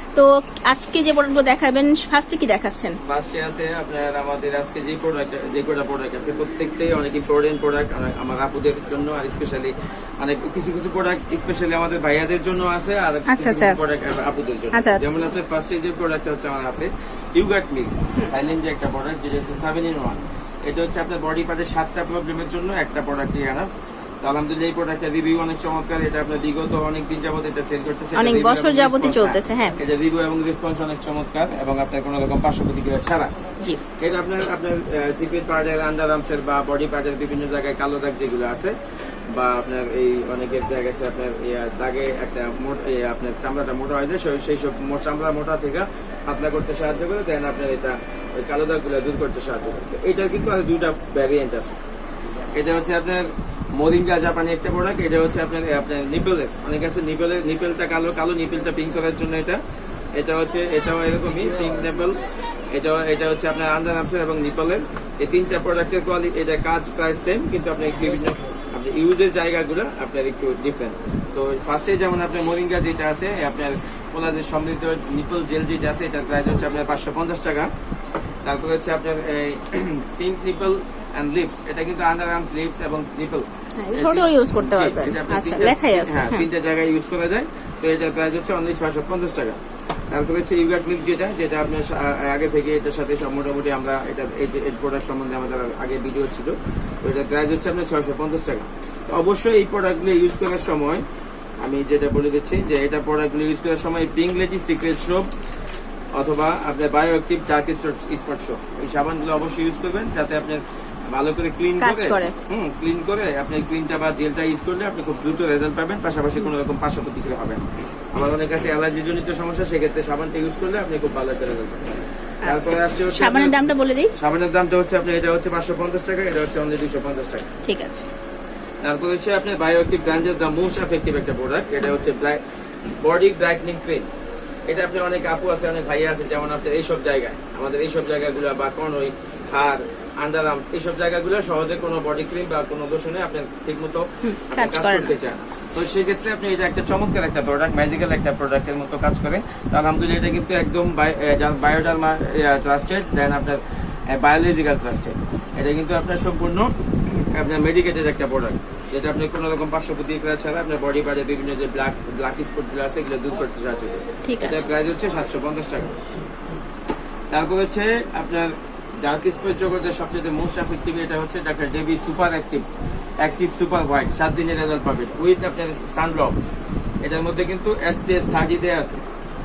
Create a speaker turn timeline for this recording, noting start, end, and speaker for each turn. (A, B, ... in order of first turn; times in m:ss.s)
0:00.2-0:03.0 A
0:03.0-0:23.7 B
0:13.3-0:13.8 A
0:14.7-0:15.0 A
0:24.2-0:33.3 B
0:28.2-0:29.8 A
0:34.0-0:38.7 B
0:39.4-0:51.8 B
0:52.6-0:59.6 B
1:00.2-1:02.2 B
1:02.7-1:17.7 B
1:18.4-1:29.6 B
1:23.8-1:26.5 A
1:30.1-1:41.0 B
1:41.6-1:45.3 B
1:46.2-1:57.6 B
1:51.8-1:52.4 A
1:58.1-2:07.5 B
2:02.4-2:04.1 A
2:07.6-2:08.0 A
2:08.8-2:12.4 B
2:13.0-2:14.1 B
2:14.7-2:46.0 B
2:24.2-2:25.2 A
2:44.2-2:44.7 A
2:47.3-2:52.6 B
2:53.2-2:56.4 B
2:57.0-2:59.0 B